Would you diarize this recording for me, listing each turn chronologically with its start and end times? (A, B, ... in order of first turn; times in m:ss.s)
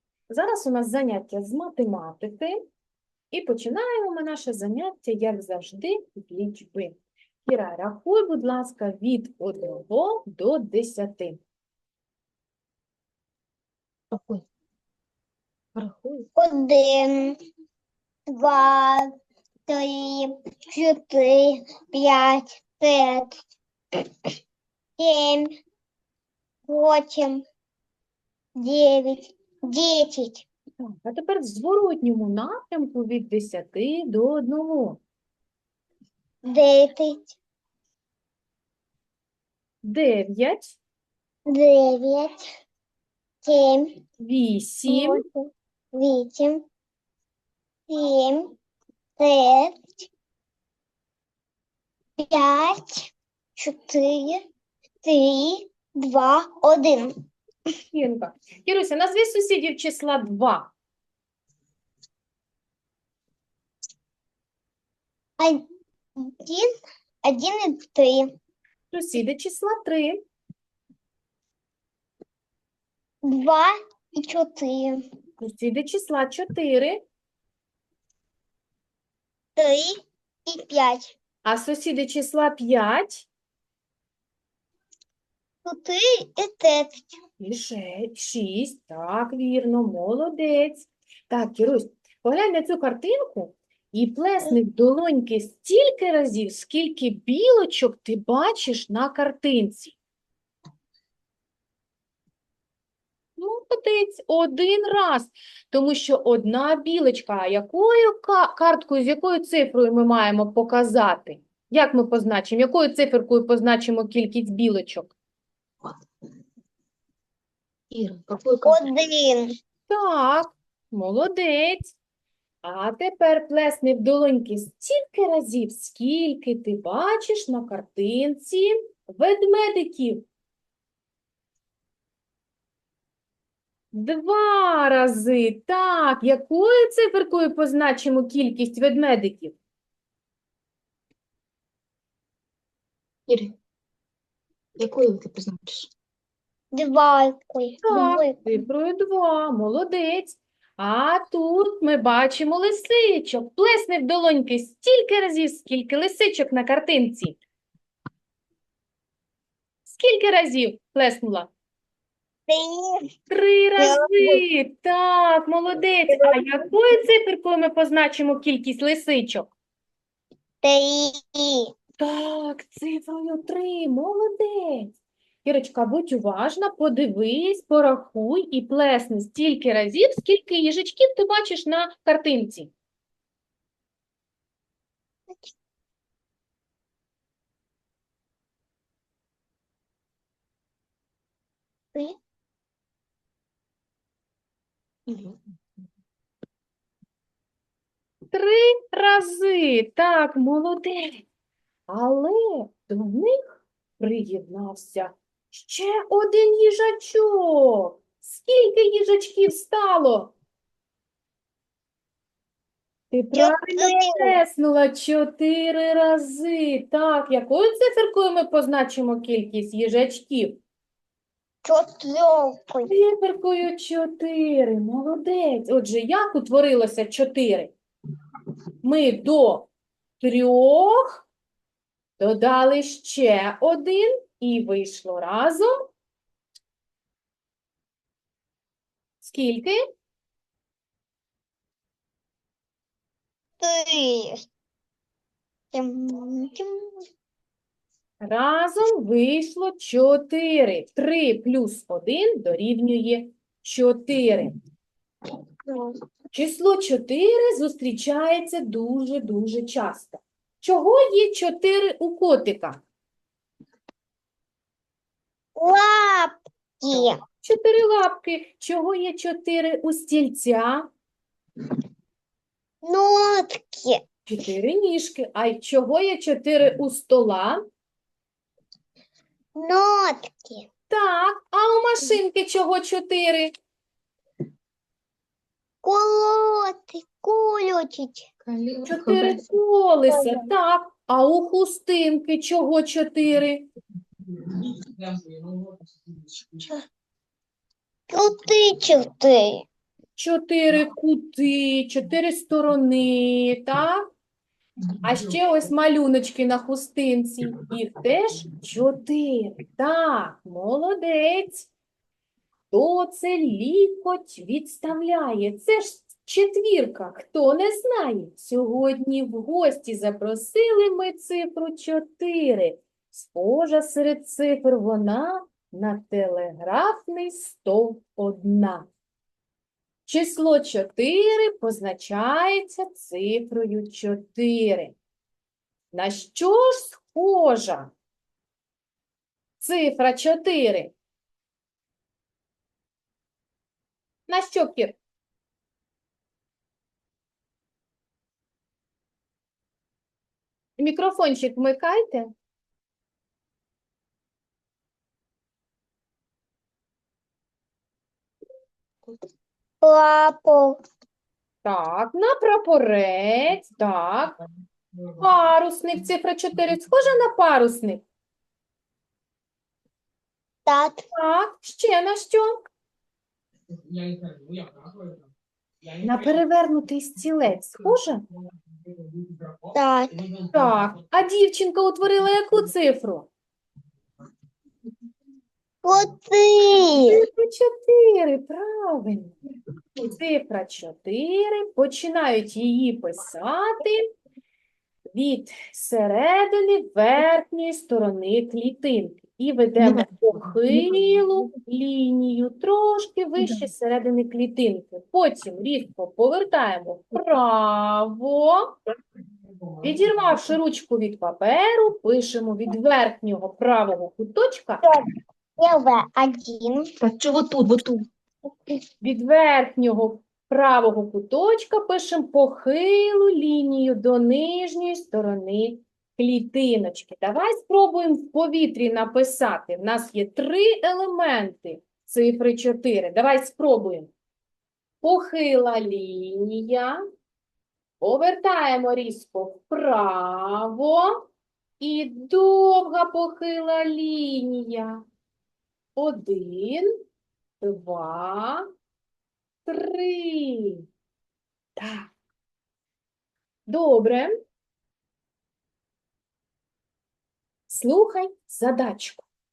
0:00.3-0:02.6 A
0:03.3-0:11.4 A
0:14.1-0:14.4 B
0:15.8-0:16.3 B
0:16.4-0:17.4 C
0:18.3-0:19.1 C
0:19.7-0:23.3 C
0:25.0-0:25.6 C
0:26.7-0:27.4 C
0:28.6-0:30.4 C
0:30.8-0:35.0 A
0:36.4-0:37.3 C
0:39.8-0:40.8 A
0:41.5-0:42.4 C
0:43.4-0:43.9 C
0:44.2-0:45.2 A
0:44.9-0:46.6 C
0:47.9-0:48.5 C
0:49.2-0:50.0 C
0:52.2-0:54.4 C
0:55.0-0:57.1 C
0:57.9-1:00.7 A
1:06.2-1:06.7 C
1:07.2-1:08.3 C
1:08.9-1:10.2 A
1:13.2-1:15.0 C
1:15.4-1:17.0 A
1:19.6-1:21.1 C
1:21.4-1:23.3 A
1:25.6-1:27.1 C
1:27.4-1:40.0 A
1:43.4-1:55.1 A
1:57.9-1:58.9 B
1:58.6-1:59.5 C
1:59.9-2:01.9 A
2:02.6-2:10.2 A
2:13.9-2:19.6 A
2:23.3-2:23.5 B
2:24.8-2:25.9 B
2:26.7-2:28.6 C
2:27.8-2:37.4 A
2:39.8-2:41.5 A
2:42.5-2:43.0 C
2:43.3-2:49.5 A
2:43.8-2:44.4 C
2:46.1-2:46.4 C
2:50.6-2:51.7 C
2:52.0-3:02.7 A
3:15.1-3:15.4 B
3:18.3-3:21.2 A
3:21.9-3:23.4 A
3:24.0-3:30.3 A
3:33.1-3:40.6 A
3:33.3-3:34.3 C
3:41.6-3:42.9 C
3:42.8-3:47.7 A
3:48.8-3:49.7 A
3:50.2-3:51.2 A
3:52.2-3:55.9 A
3:59.2-3:59.8 A
4:03.6-4:04.4 C
4:05.7-4:07.0 C
4:08.2-4:14.5 A
4:15.7-4:15.9 C
4:16.3-4:22.8 A
4:25.6-4:27.2 C
4:27.4-4:30.9 A
4:32.8-4:34.0 C
4:34.3-4:37.6 A
4:39.6-4:40.7 C
4:40.9-4:43.5 A
4:45.8-4:48.3 C
4:48.4-4:49.6 B
4:48.9-4:53.6 A
4:50.1-4:50.5 C
4:54.4-4:56.7 B
4:58.1-4:59.6 C
5:00.2-5:04.0 A
5:05.0-5:11.7 A
5:12.7-5:28.9 A
5:30.0-5:35.0 A
5:35.9-5:37.9 A
5:39.6-5:40.9 A
5:44.3-5:45.0 A
5:50.8-5:52.3 A
5:59.8-6:00.8 C
6:01.6-6:04.3 A
6:05.2-6:08.0 A
6:10.6-6:11.1 C
6:11.1-6:12.5 A
6:13.9-6:15.1 B
6:16.0-6:18.2 A
6:19.7-6:20.2 C
6:20.5-6:23.3 A
6:25.8-6:27.2 C
6:26.9-6:29.3 A
6:30.0-6:34.1 A
6:35.1-6:48.7 A
6:39.8-6:41.5 B
6:43.4-6:43.6 B
6:49.8-6:54.8 A
6:54.8-6:56.9 C
6:57.0-6:58.0 B
6:59.0-7:14.1 A
7:15.0-7:17.0 A
7:18.0-7:21.3 A
7:21.8-7:25.0 A
7:26.0-7:26.9 A
7:27.6-7:28.7 A
7:29.6-7:30.8 A
7:31.8-7:32.1 A
7:33.7-7:34.3 A
7:37.7-7:39.3 A